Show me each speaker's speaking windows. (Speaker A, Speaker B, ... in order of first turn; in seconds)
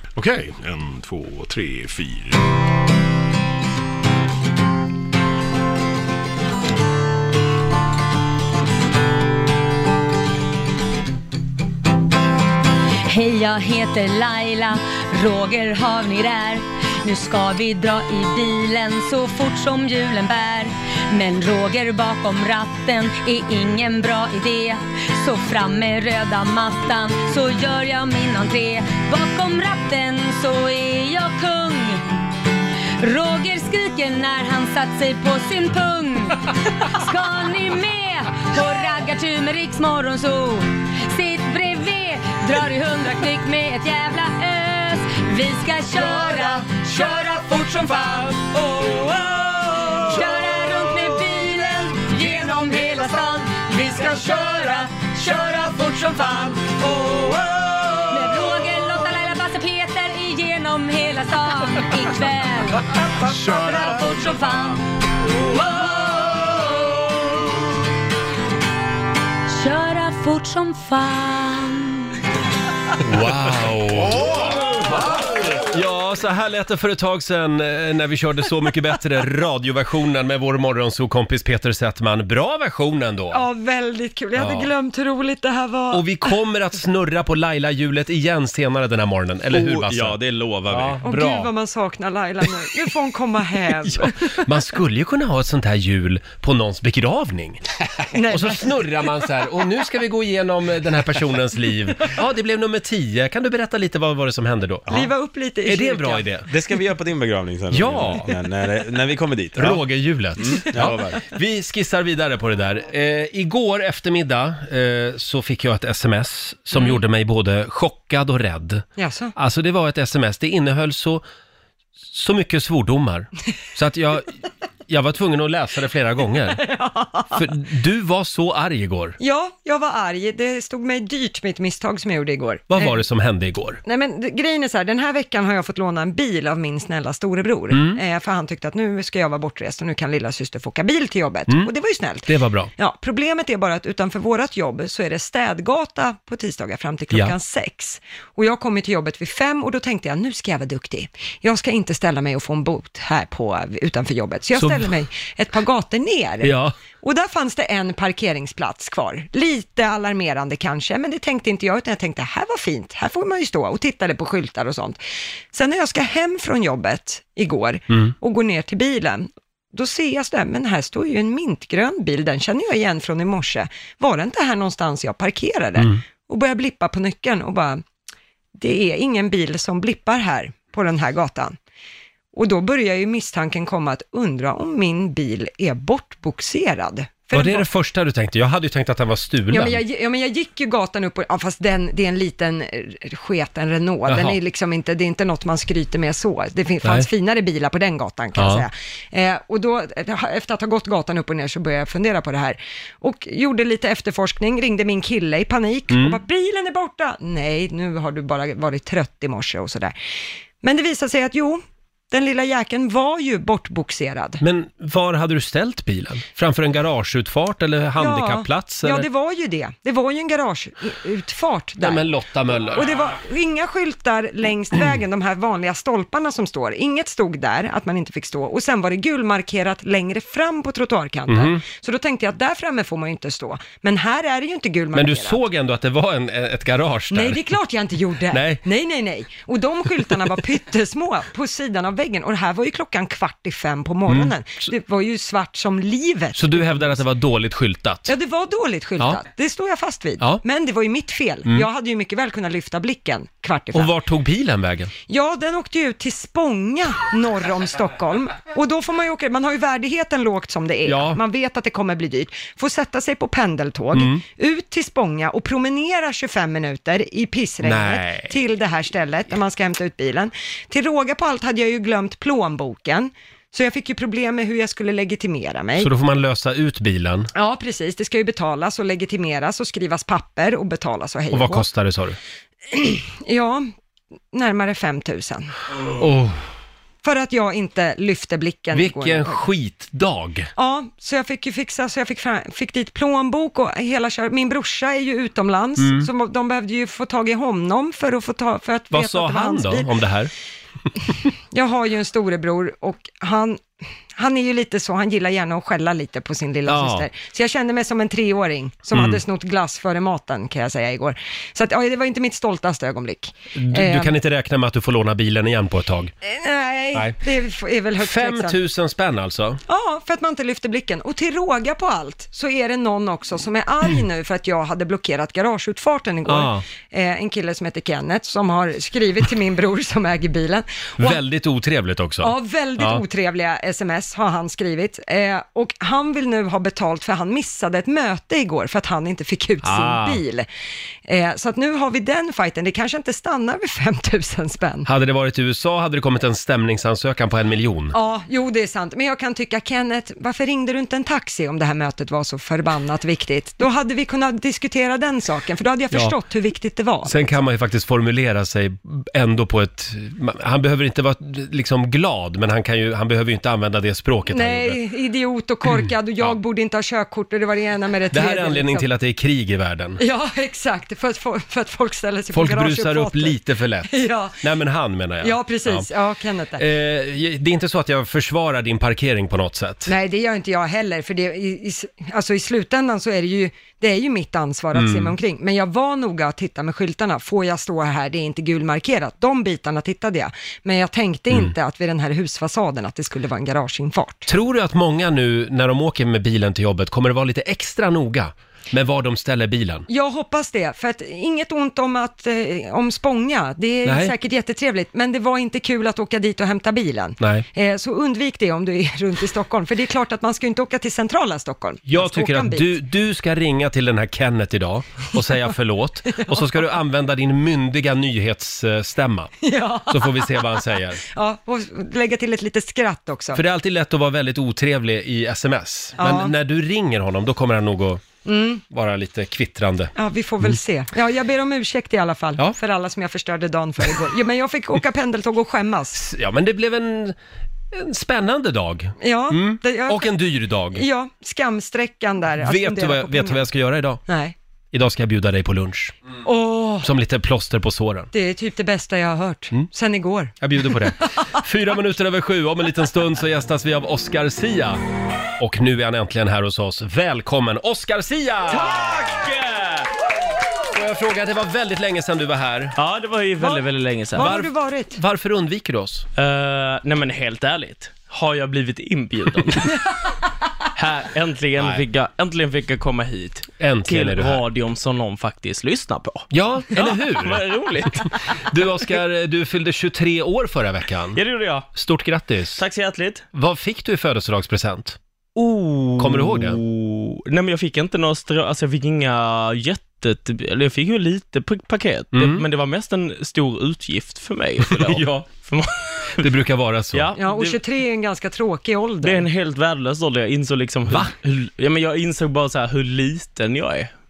Speaker A: 0.2-2.4
Speaker B: 13.1-32.0, 33.0-57.4, 58.0-67.4, 69.5-72.2
Speaker C: 73.0-74.5, 75.5-83.5, 84.4-84.7, 85.9-91.5, 93.8-97.6, 98.3-104.9, 105.7-106.5, 107.7-108.3, 109.6-118.8, 119.4-121.2, 122.1-124.3, 124.9-126.6, 127.3-129.2, 132.7-133.8, 137.7-138.0, 142.3-142.7, 154.6-154.9, 156.4-156.8, 187.3-189.8, 194.1-194.4, 198.3-198.7, 205.9-206.2, 214.4-219.1, 221.8-222.9, 231.3-231.6, 234.9-237.5, 238.3-238.6, 244.1-244.3, 246.3-248.1, 253.7-254.9, 260.9-261.2, 263.9-264.2, 267.6-268.4, 275.8-277.3, 281.3-282.2, 286.0-286.4, 288.7-290.5, 295.8-296.1, 298.9-300.3, 306.7-307.1, 308.9-309.2, 313.6-316.1, 316.9-317.2, 318.0-319.6, 326.3-326.6, 331.0-333.0, 339.6-340.2, 344.9-347.9, 357.1-364.8, 365.7-366.4, 368.1-370.0, 372.3-375.9, 376.6-379.9, 384.7-385.1, 394.3-399.9, 403.9-404.1, 407.2-407.5, 411.9-419.4, 419.9-421.0, 423.3-428.1, 428.7-430.6, 435.9-437.2, 437.7-440.8, 442.4-444.0, 444.7-446.0, 446.8-448.1, 450.4-454.8, 455.4-458.8, 460.7-462.8, 464.2-466.1, 473.6-474.4, 476.3-477.4, 478.5-481.2, 481.7-482.6, 483.3-485.0, 486.0-486.6, 492.1-492.4, 494.8-495.2, 496.2-497.1
Speaker D: 83.3-86.1, 91.0-94.3, 98.1-98.8, 104.9-106.3, 119.0-119.3, 126.6-127.3, 129.2-133.0, 133.8-165.0, 165.5-177.8, 178.6-181.6, 182.3-187.7, 189.5-209.9, 210.6-214.4, 218.0-222.1, 222.7-235.4, 237.1-247.0, 248.1-253.9, 255.1-275.9, 277.3-281.6, 282.7-283.7, 284.3-285.5, 287.0-289.4, 290.6-299.9, 301.5-314.1, 316.2-318.6, 319.7-331.2, 332.2-340.5, 341.1-344.9, 347.9-357.3, 364.3-368.9, 370.0-374.4, 375.2-376.6, 379.9-394.3, 399.9-412.7, 416.1-416.5, 419.4-420.6, 421.1-423.4, 426.0-426.3, 428.2-428.6, 430.0-436.0, 439.0-440.1, 440.7-443.4, 444.1-444.3, 446.2-446.9, 448.1-450.9, 463.4-465.0, 497.2-499.2
Speaker E: 89.5-91.0, 106.5-109.8, 110.4-111.2
Speaker F: 458.5-459.9, 462.8-464.3, 466.2-469.9, 470.8-478.5, 481.1-481.7, 482.6-483.3, 485.4-496.3, 496.9-497.6, 499.0-503.9